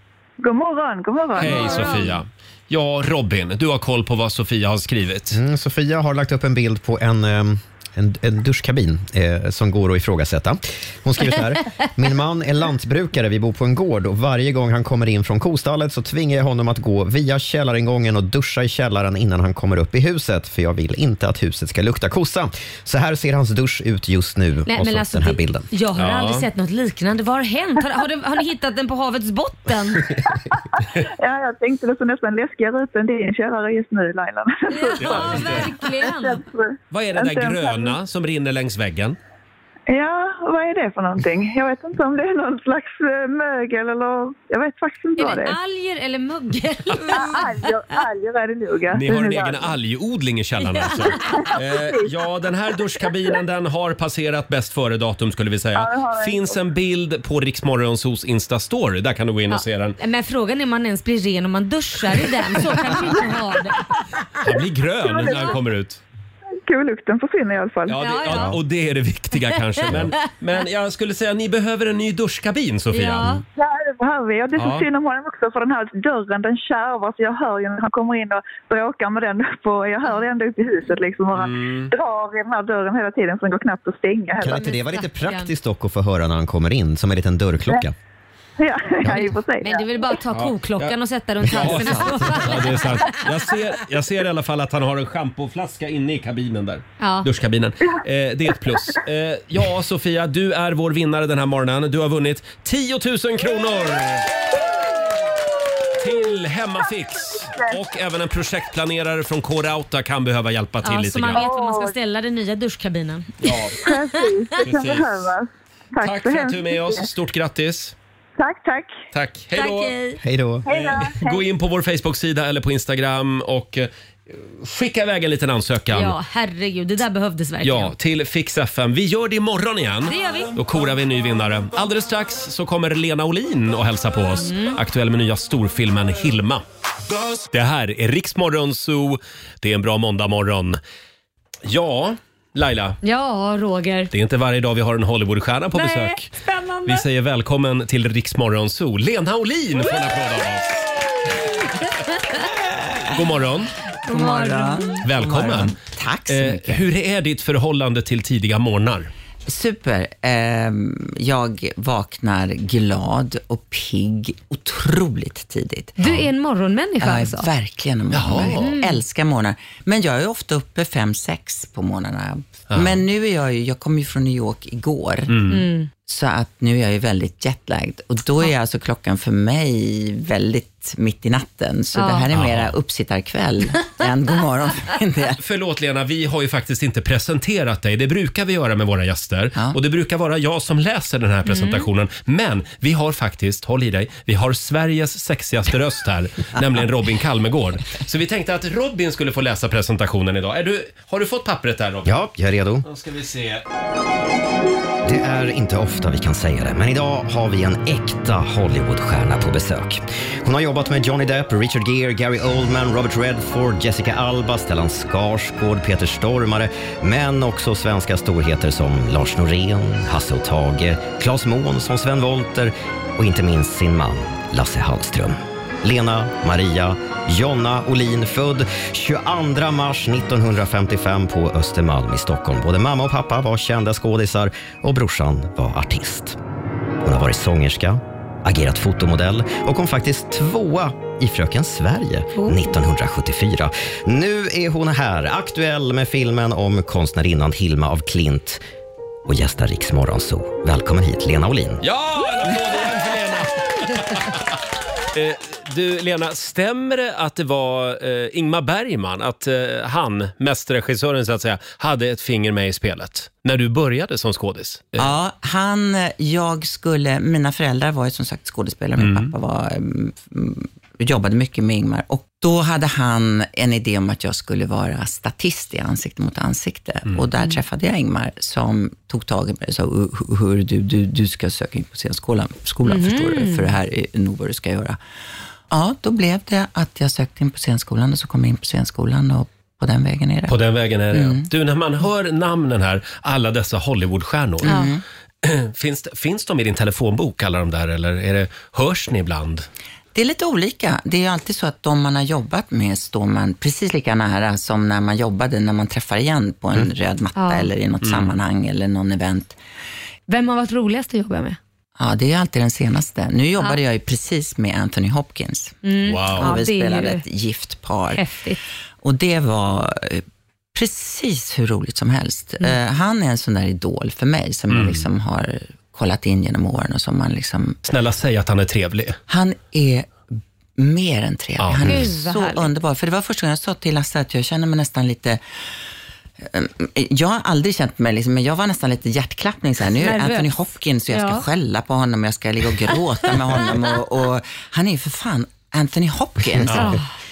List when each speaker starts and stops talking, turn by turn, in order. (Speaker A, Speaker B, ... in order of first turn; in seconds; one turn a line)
Speaker A: 0.4-2.0
Speaker B: 1.4-5.4
Speaker C: 1.4-2.2
Speaker D: 5.3-25.7
Speaker C: 24.7-30.1
Speaker B: 25.9-26.4
Speaker A: 31.2-38.0
Speaker C: 34.7-36.4
Speaker B: 35.0-35.7
Speaker B: 36.9-39.2
Speaker A: 39.9-45.5
Speaker C: 45.2-48.0
Speaker A: 47.1-49.7
Speaker B: 48.9-60.0
Speaker C: 50.6-51.4
Speaker A: 51.2-52.1
Speaker A: 55.7-56.6
Speaker C: 59.5-63.9
Speaker B: 64.4-66.0
Speaker A: 65.0-65.6
Speaker C: 65.3-65.5
Speaker A: 66.7-68.0
Speaker B: 67.9-73.4
Speaker C: 68.0-68.5
Speaker D: 68.3-68.6
Speaker C: 69.8-70.1
Speaker C: 72.9-73.4
Speaker A: 73.6-84.7
Speaker B: 74.5-74.8
Speaker B: 81.3-81.9
Speaker D: 84.4-87.9
Speaker C: 84.5-85.5
Speaker A: 88.6-89.8
Speaker C: 89.0-93.2
Speaker B: 90.3-90.9
Speaker B: 91.5-104.3
Speaker D: 91.7-92.4
Speaker C: 97.0-97.3
Speaker B: 106.0-111.5
Speaker C: 110.8-114.1
Speaker A: 111.3-111.9
Speaker B: 113.4-113.8
Speaker A: 113.7-117.1
Speaker B: 114.6-115.1
Speaker B: 116.0-117.9
Speaker A: 118.4-118.9
Speaker B: 119.1-119.9
Speaker C: 119.5-120.2
Speaker D: 120.2-120.7
Speaker A: 120.7-121.4
Speaker B: 120.7-126.1
Speaker C: 125.9-127.9
Speaker B: 127.6-136.6
Speaker C: 130.1-130.5
Speaker C: 134.3-134.8
Speaker B: 137.5-140.8
Speaker B: 141.6-143.0
Speaker C: 143.0-144.1
Speaker B: 144.1-150.9
Speaker C: 145.7-147.0
Speaker E: 152.7-153.2
Speaker B: 153.1-153.7
Speaker C: 154.0-155.0
Speaker E: 154.1-156.8
Speaker B: 155.0-155.7
Speaker B: 156.3-159.1
Speaker E: 159.5-166.0
Speaker C: 166.0-167.5
Speaker E: 167.0-175.4
Speaker B: 168.1-168.7
Speaker C: 168.4-169.0
Speaker B: 172.7-173.0
Speaker B: 175.3-175.7
Speaker C: 175.5-175.9
Speaker E: 176.0-185.4
Speaker C: 181.9-182.3
Speaker B: 182.3-182.7
Speaker B: 185.4-202.1
Speaker C: 191.4-191.9
Speaker D: 202.1-202.8
Speaker B: 202.8-203.6
Speaker D: 205.0-236.4
Speaker D: 237.0-248.6
Speaker C: 242.3-242.7
Speaker D: 249.2-251.8
Speaker B: 251.8-254.4
Speaker B: 255.1-265.1
Speaker E: 265.0-285.0
Speaker B: 269.0-269.3
Speaker C: 282.8-283.7
Speaker E: 285.7-290.6
Speaker B: 290.5-294.7
Speaker E: 291.1-291.5
Speaker E: 294.6-295.0
Speaker C: 294.6-294.9
Speaker B: 295.4-299.7
Speaker E: 300.1-309.6
Speaker C: 307.3-307.7
Speaker B: 308.0-308.3
Speaker C: 310.3-311.6
Speaker E: 312.0-318.2
Speaker C: 315.8-317.2
Speaker B: 316.1-316.5
Speaker C: 318.1-318.6
Speaker E: 319.0-320.2
Speaker E: 320.7-327.8
Speaker B: 324.7-325.0
Speaker B: 327.8-329.2
Speaker E: 329.3-330.1
Speaker E: 330.8-335.4
Speaker B: 331.6-332.1
Speaker C: 331.8-332.7
Speaker E: 336.4-346.9
Speaker C: 340.0-340.5
Speaker C: 341.1-341.4
Speaker C: 346.7-347.1
Speaker B: 346.7-346.9